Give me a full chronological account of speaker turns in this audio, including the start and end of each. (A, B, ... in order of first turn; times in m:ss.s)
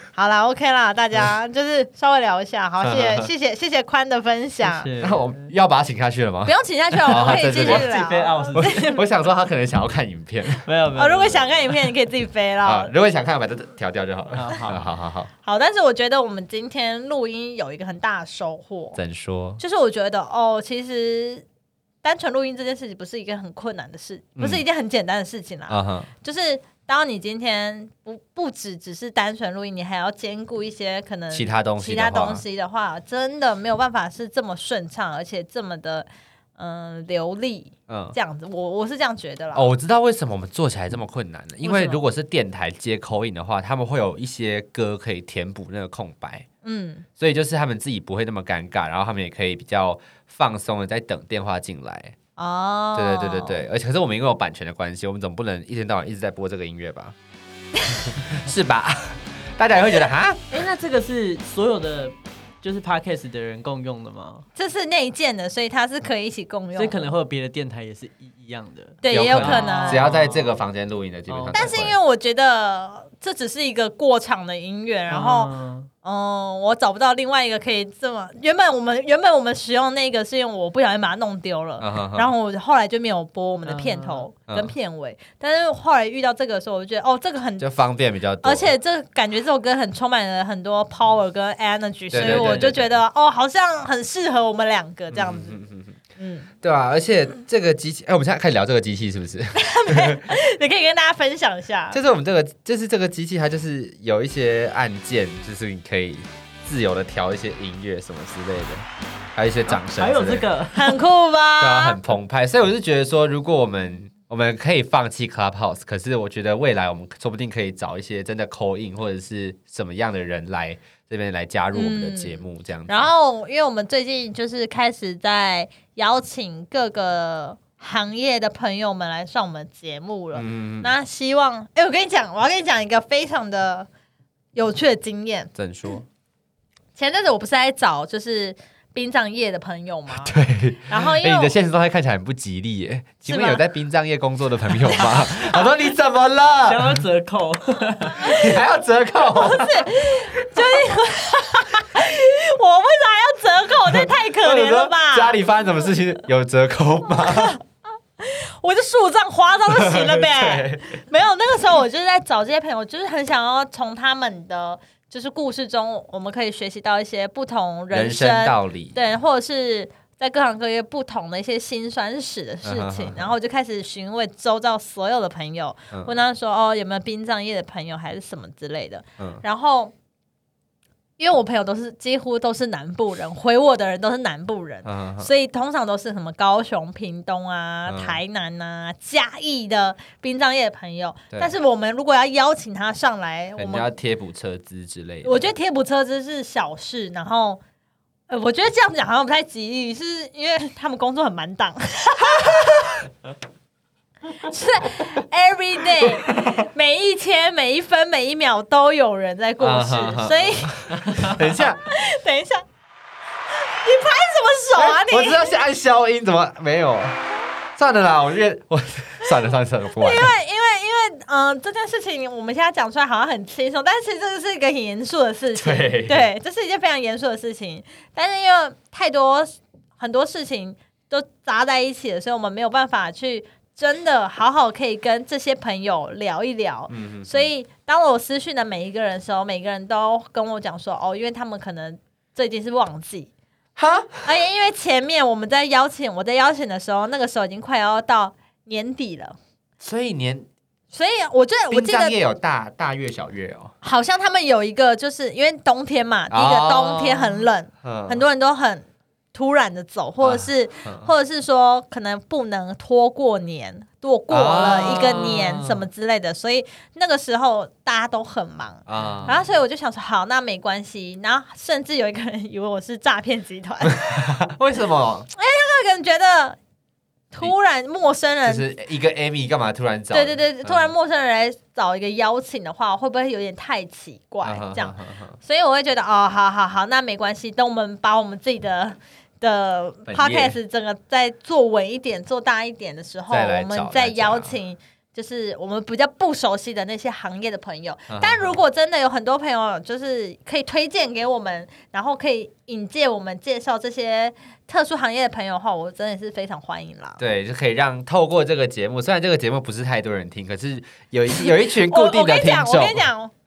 0:00.1-0:04.9 A
0:02.8-0:03.3 B
0:04.6-0:05.5 C
0:05.0-0:07.9 B
0:06.4-0:09.0 A
0:07.1-0:09.0 C
0:08.5-0:10.6 B
0:10.6-0:11.9 C
0:11.0-0:12.9 A
0:12.6-0:15.3 B
0:14.3-0:14.8 C
0:15.4-0:19.0 A
0:19.0-0:19.6 B
0:19.6-0:21.4 A
0:22.0-0:39.7 A
0:24.4-0:24.6 B
0:25.7-0:26.1 B
0:31.3-0:32.4 B
0:37.9-0:38.2 B
0:39.5-0:46.4 B
0:41.6-0:42.0 A
0:46.6-0:47.0 A
0:47.2-0:52.2 B
0:52.4-0:53.6 A
0:52.9-0:57.1 B
0:58.0-1:00.4 B
1:00.5-1:04.4 C
1:04.6-1:07.0 A
1:06.8-1:10.6 C
1:09.0-1:10.0 A
1:09.1-1:12.0 B
1:11.3-1:11.7 C
1:11.5-1:27.7 A
1:15.1-1:15.9 C
1:21.8-1:22.3 B
1:23.6-1:24.3 C
1:24.5-1:24.7 B
1:27.6-1:28.7 B
1:28.4-1:35.6 A
1:32.1-1:33.0 B
1:32.1-1:32.8 C
1:35.1-1:36.0 B
1:36.2-1:36.5 A
1:36.6-1:40.2 B
1:39.5-1:42.0 A
1:41.9-1:50.4 B
1:49.7-1:51.0 C
1:50.7-1:52.0 A
1:51.6-2:03.1 B
2:01.7-2:13.9 A
2:10.3-2:10.9 B
2:14.5-2:15.5 A
2:15.6-2:16.0 B
2:16.9-2:21.5 A
2:20.2-2:27.0 B
2:23.2-2:23.6 A
2:24.9-2:25.3 A
2:26.6-2:28.5 C
2:28.2-2:29.9 B
2:29.3-2:35.4 A
2:33.9-2:37.6 B
2:37.2-2:37.6 A
2:38.2-2:59.9 A
2:39.7-2:41.0 B
2:47.9-2:49.0 B
2:52.6-2:53.3 B
2:59.2-2:59.4 B
3:01.2-3:13.9 A
3:04.8-3:05.3 B
3:07.9-3:08.2 B
3:13.6-3:15.5 B
3:15.2-3:17.6 A
3:18.3-3:23.0 A
3:24.3-3:32.6 A
3:26.0-3:26.5 B
3:29.6-3:31.8 B
3:33.6-3:35.6 A
3:34.7-3:37.2 B
3:37.7-3:40.3 B
3:40.0-4:03.3 A
3:45.5-3:46.3 B
3:56.9-3:57.5 B
4:03.8-4:04.2 B
4:04.2-4:09.4 A
4:09.8-4:10.5 B
4:10.9-4:12.2 A
4:11.7-4:13.7 B
4:13.8-4:34.2 A
4:16.3-4:18.2 B
4:20.2-4:21.1 B
4:24.3-4:25.8 B
4:28.9-4:29.4 B
4:33.9-4:35.3 B
4:35.3-4:36.6 A
4:37.3-4:38.7 A
4:38.4-4:40.9 B
4:40.1-5:07.2 A
4:44.4-4:45.4 B
4:50.0-4:50.6 B
4:53.3-4:54.6 B
4:58.1-4:58.6 B
5:07.2-5:13.0 B
5:11.4-5:13.3 A